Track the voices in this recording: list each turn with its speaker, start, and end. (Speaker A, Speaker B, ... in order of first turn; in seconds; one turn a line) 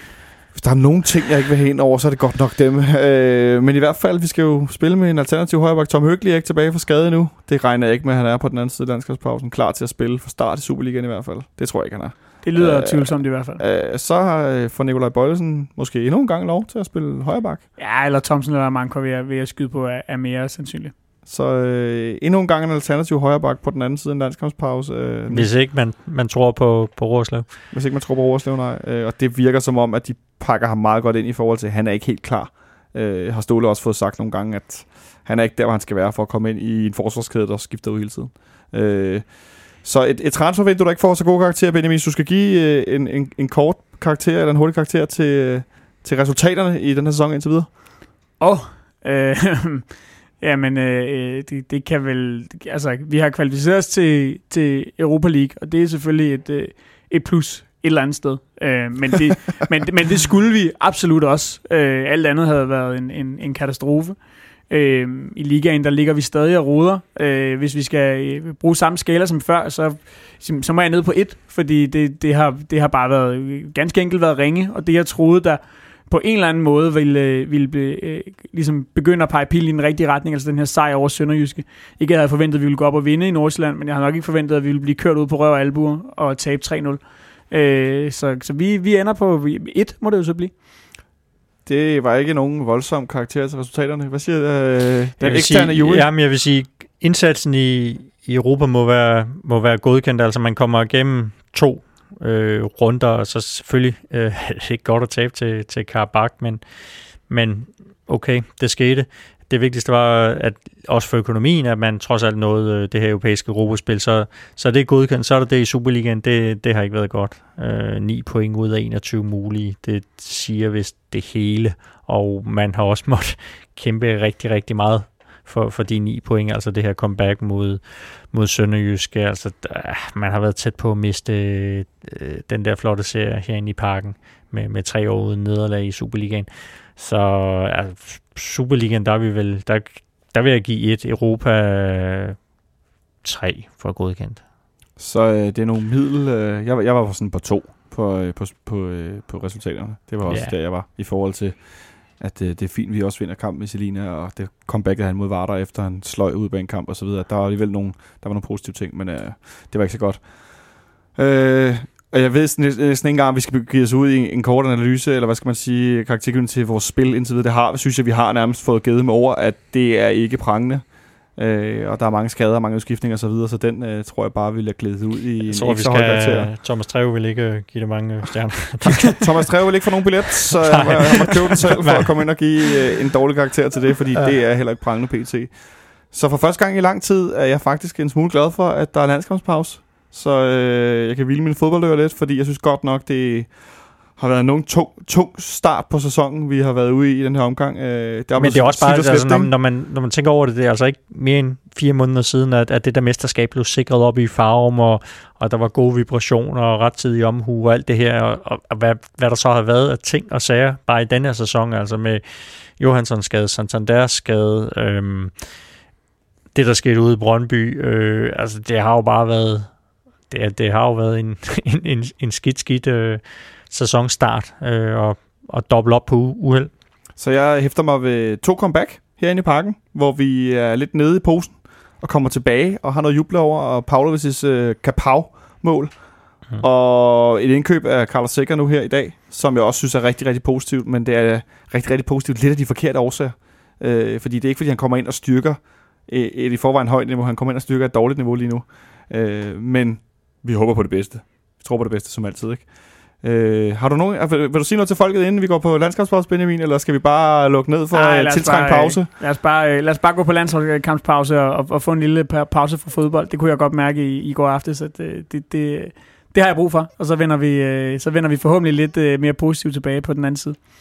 Speaker A: 0.5-17.6
Speaker B: 12.4-13.6
Speaker B: 17.8-20.9
Speaker A: 21.3-25.5
Speaker C: 25.3-27.5
Speaker A: 27.7-47.7
Speaker B: 48.4-49.9
Speaker B: 50.4-64.2
Speaker B: 64.7-90.5
Speaker A: 91.7-96.1
Speaker C: 95.2-106.6
Speaker C: 107.3-142.4
Speaker C: 143.2-144.4
Speaker A: 145.0-176.5
Speaker C: 150.3-150.6
Speaker C: 175.5-179.3
Speaker A: 179.1-199.5
Speaker C: 180.5-182.5
Speaker C: 198.3-215.6
Speaker C: 216.5-219.7
Speaker C: 220.3-226.7
Speaker A: 227.2-236.0
Speaker A: 236.5-259.1
Speaker B: 257.9-270.6